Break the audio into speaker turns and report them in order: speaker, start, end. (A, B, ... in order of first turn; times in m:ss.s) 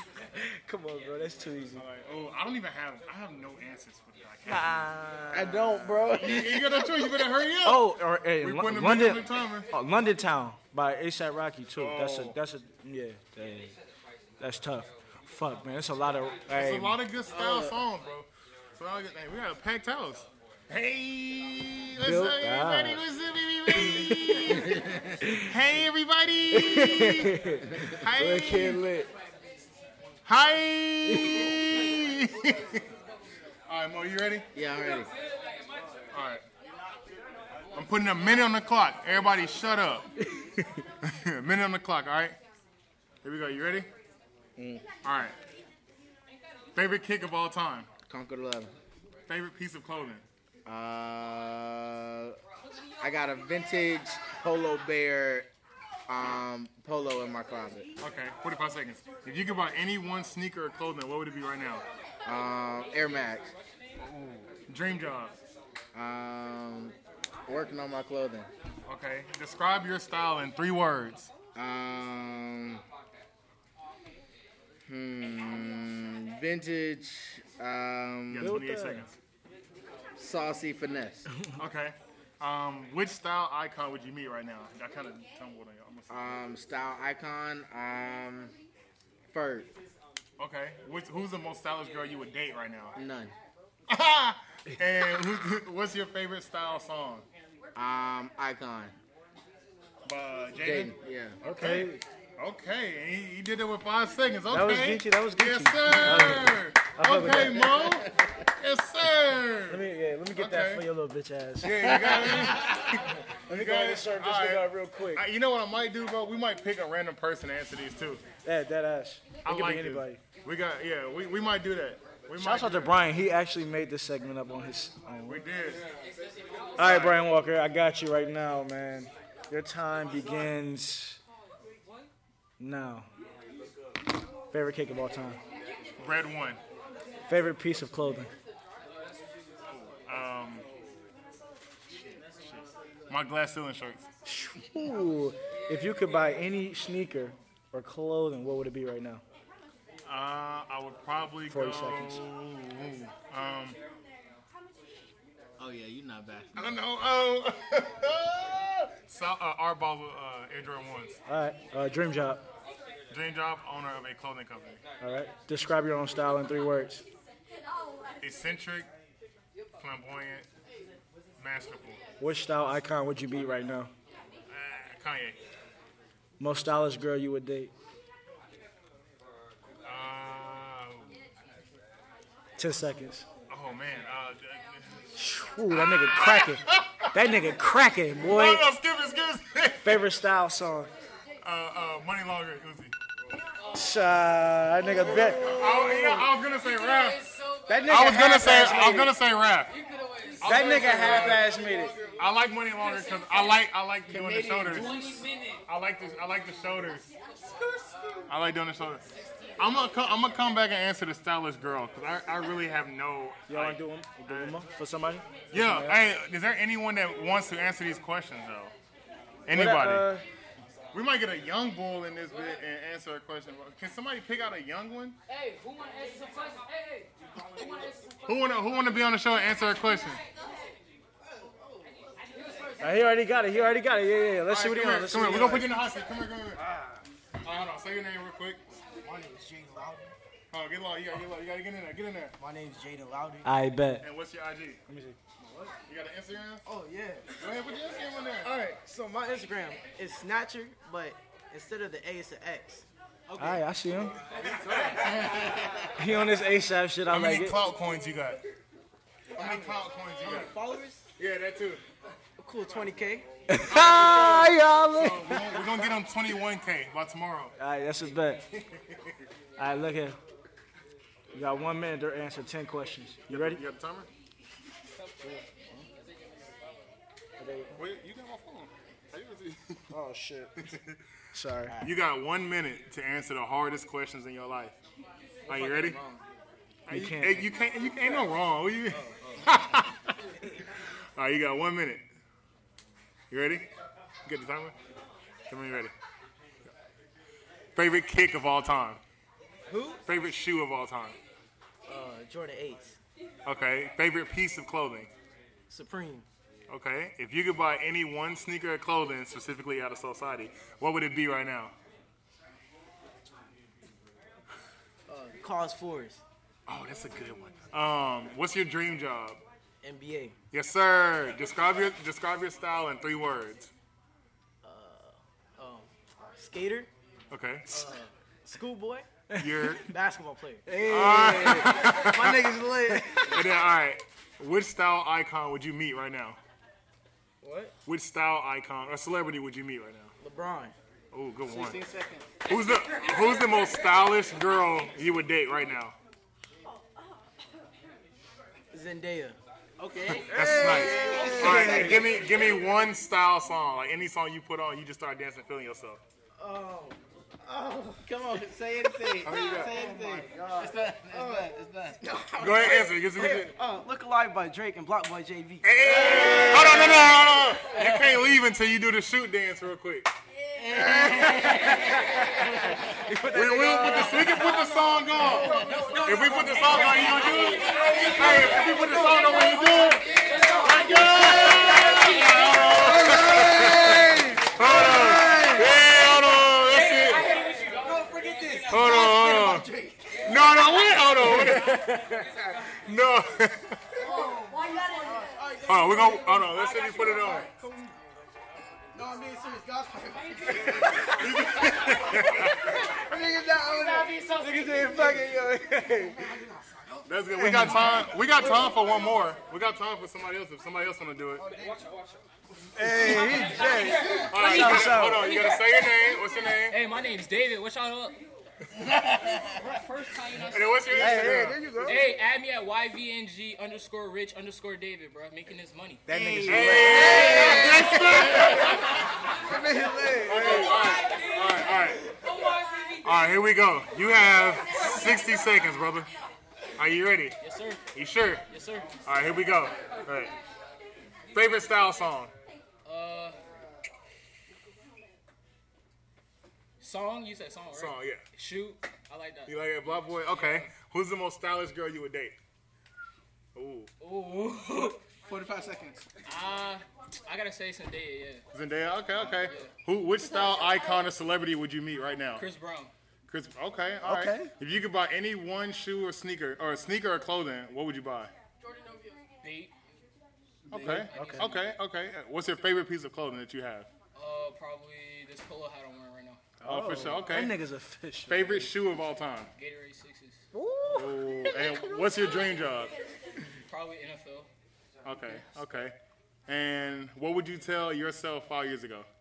0:00.4-0:01.9 A
0:01.8-0:04.9 B
0:04.4-0:06.1 A
0:05.3-0:07.2 C
0:06.1-0:09.7 B
0:07.6-0:13.8 A
0:11.8-0:12.4 B
0:14.4-0:17.0 A
0:16.5-0:24.8 B
0:17.3-0:17.8 C
0:22.0-0:23.0 A
0:23.7-0:24.6 A
0:24.5-0:25.2 C
0:25.2-0:25.5 A
0:25.4-0:28.8 B
0:26.5-0:29.1 A
0:30.2-0:32.8 B
0:31.0-0:31.5 A
0:33.7-0:34.5 B
0:34.6-0:35.1 C
0:36.1-0:36.4 B
0:37.7-0:40.1 B
0:40.4-0:40.6 A
0:41.0-0:42.4 B
0:43.2-0:43.9 B
0:44.6-0:44.9 C
0:45.0-0:45.4 B
0:46.8-0:47.9 B
0:48.1-0:48.7 C
0:49.3-0:50.2 B
0:50.6-0:52.4 C
0:53.0-0:55.5 C
0:56.1-0:57.9 C
0:58.0-1:01.8 B
1:02.2-1:03.5 C
1:04.0-1:05.4 B
1:05.9-1:07.0 C
1:07.5-1:08.5 C
1:08.9-1:11.3 B
1:11.6-1:12.8 C
1:14.9-1:18.6 C
1:18.3-1:19.2 B
1:18.4-1:19.1 A
1:20.2-1:21.3 C
1:21.6-1:26.4 B
1:26.1-1:28.5 C
1:29.3-1:29.7 C
1:30.4-1:32.9 B
1:33.0-1:33.3 C
1:33.9-1:37.3 B
1:37.8-1:38.9 C
1:40.1-1:40.9 B
1:40.6-1:41.4 C
1:41.4-1:42.0 A
1:41.5-1:50.9 B
1:44.5-1:47.8 A
1:47.3-1:48.3 C
1:49.7-1:51.8 A
1:51.6-1:58.2 B
1:51.7-1:52.8 C
1:53.5-1:55.2 A
1:58.4-2:00.2 A
1:59.4-2:02.9 B
2:02.4-2:05.4 A
2:05.3-2:05.8 B
2:06.8-2:07.2 B
2:06.8-2:11.2 A
2:12.6-2:13.1 A
2:14.5-2:15.4 A
2:16.0-2:16.6 B
2:17.3-2:18.3 A
2:19.7-2:20.6 B
2:22.4-2:24.1 B
2:24.3-2:29.2 A
2:30.1-2:33.8 B
2:31.5-2:32.2 A
2:35.6-2:36.8 C
2:36.6-2:41.2 B
2:41.3-2:42.4 A
2:43.1-2:44.8 B
2:45.0-2:47.0 A
2:48.2-2:48.9 B
2:49.8-2:50.4 B
2:51.4-2:52.0 B
2:52.2-2:53.9 A
2:54.5-2:55.4 B
2:56.4-2:57.7 A
2:59.8-3:01.1 B
3:02.6-3:03.3 A
3:03.5-3:05.0 B
3:05.2-3:08.7 A
3:05.7-3:07.1 B
3:08.2-3:10.1 B
3:09.8-3:10.9 A
3:11.4-3:12.9 B
3:13.7-3:16.3 A
3:15.4-3:17.2 B
3:17.7-3:19.1 A
3:17.9-3:19.7 B
3:19.8-3:20.9 D
3:20.4-3:21.6 B
3:20.4-3:21.9 A
3:22.1-3:24.9 B
3:24.1-3:25.2 C
3:25.0-3:25.3 D
3:25.7-3:27.1 B
3:28.3-3:29.1 B
3:29.6-3:34.6 B
3:33.5-3:36.0 A
3:35.5-3:38.7 B
3:39.5-3:40.1 B
3:39.5-3:40.2 A
3:40.9-3:45.2 B
3:45.5-3:47.0 D
3:48.2-3:50.2 B
3:52.8-3:55.7 A
3:54.5-3:56.6 B
3:56.6-3:57.0 E
3:57.4-3:58.6 B
3:59.0-4:00.1 E
4:00.5-4:02.3 B
4:02.4-4:03.5 E
4:03.4-4:04.1 A
4:04.0-4:04.8 B
4:04.9-4:05.2 A
4:05.4-4:05.8 E
4:05.9-4:06.6 B
4:06.6-4:07.4 E
4:07.4-4:08.5 B
4:08.4-4:13.6 E
4:13.4-4:14.2 A
4:14.3-4:15.5 B
4:14.9-4:15.9 C
4:16.0-4:17.6 A
4:17.1-4:18.4 B
4:19.4-4:20.6 B
4:19.4-4:21.0 E
4:21.2-4:21.8 B
4:22.4-4:23.3 E
4:23.5-4:25.6 A
4:23.7-4:27.5 B
4:27.6-4:28.4 A
4:28.5-4:29.1 B
4:29.6-4:30.2 A
4:31.3-4:33.6 A
4:33.3-4:34.1 B
4:37.4-4:37.8 A
4:37.7-4:39.9 B
4:39.9-4:40.5 A
4:40.6-4:41.0 B
4:41.3-4:41.8 A
4:41.8-4:44.8 B
4:45.4-4:46.2 E
4:45.5-4:46.0 B
4:46.9-4:50.2 B
4:46.9-4:47.5 A
4:48.0-4:48.3 E
4:48.9-4:49.5 E
4:51.2-4:52.0 B
4:53.3-4:53.6 B
4:54.3-4:54.7 B
4:55.5-4:55.9 B
4:57.8-4:59.0 B
4:59.7-5:00.0 E
5:00.1-5:01.2 B
5:01.9-5:03.0 E
5:03.4-5:05.1 B
5:05.7-5:06.3 E
5:06.7-5:11.7 B
5:15.1-5:16.2 E
5:16.7-5:19.4 B
5:19.8-5:20.4 E
5:20.5-5:23.7 B
5:24.6-5:26.9 E
5:27.3-5:27.9 B
5:27.7-5:29.1 E
5:29.3-5:29.8 A
5:29.4-5:29.9 B
5:29.8-5:33.4 E
5:30.7-5:33.1 A
5:30.8-5:32.6 B
5:33.1-5:36.4 B
5:37.4-5:37.7 E
5:37.9-5:40.1 B
5:40.2-5:40.8 E
5:41.1-5:41.8 B
5:41.5-5:42.2 C
5:42.4-5:45.9 B
5:48.7-5:49.4 E
5:49.8-5:52.3 C
5:50.1-5:52.4 E
5:50.1-5:56.0 B
5:50.4-5:52.1 A
5:56.4-5:58.1 E
5:58.0-6:02.0 C
5:58.9-6:08.0 E
5:59.2-5:59.7 B
6:02.4-6:03.5 B
6:05.6-6:10.1 B
6:06.0-6:06.8 C
6:10.6-6:13.0 C
6:10.7-6:12.0 E
6:12.8-6:22.2 E
6:13.2-6:27.4 B
6:13.5-6:14.1 A
6:15.2-6:15.9 C
6:15.9-6:22.8 D
6:22.7-6:25.9 E
6:26.7-6:28.0 D
6:27.4-6:30.4 E
6:28.7-6:29.7 B
6:30.2-6:32.0 B
6:32.9-6:33.8 B
6:34.0-6:38.0 E
6:34.3-6:34.8 D
6:35.6-6:37.5 B
6:38.9-6:47.1 E
6:41.0-6:42.8 B
6:43.1-6:43.6 A
6:43.7-6:45.0 D
6:44.4-6:46.2 A
6:47.0-6:51.5 B
6:47.4-6:48.0 A
6:51.4-6:51.9 E
6:51.6-6:52.0 D
6:52.8-6:55.4 A
6:52.8-6:54.3 E
6:53.0-6:58.2 D
6:54.3-6:56.8 B
6:59.0-6:59.3 C
6:59.4-7:06.1 D
7:00.5-7:01.6 B
7:01.0-7:02.0 A
7:01.0-7:02.2 E
7:06.1-7:08.8 C
7:06.1-7:08.1 E
7:06.1-7:06.7 A
7:06.5-7:09.0 B
7:09.5-7:10.6 A
7:09.6-7:10.6 E
7:10.2-7:12.0 B
7:10.8-7:11.3 D
7:13.0-7:16.1 B
7:16.8-7:17.4 B
7:17.4-7:17.8 D
7:17.9-7:18.4 B
7:18.5-7:19.0 D
7:19.0-7:20.3 B
7:21.3-7:22.3 B
7:22.9-7:23.4 D
7:26.8-7:30.7 D
7:27.7-7:28.2 B
7:29.4-7:32.4 B
7:33.6-7:33.9 B
7:34.0-7:35.0 D
7:35.3-7:36.1 C
7:36.3-7:38.4 D
7:38.5-7:42.4 B
7:39.3-7:39.7 D
7:42.4-7:42.9 D
7:43.3-7:48.3 B
7:44.0-7:44.5 C
7:49.4-7:49.7 D
7:50.7-7:53.9 B
7:50.8-7:51.0 C
7:50.8-7:51.7 D
7:50.8-7:51.5 A
7:54.1-7:56.4 D
7:56.6-7:58.7 A
7:56.6-7:57.6 B
7:58.3-7:59.5 B
7:59.6-8:00.4 D
8:00.5-8:01.8 A
8:00.9-8:02.9 B
8:03.7-8:04.5 D
8:05.0-8:05.9 B
8:06.5-8:09.1 B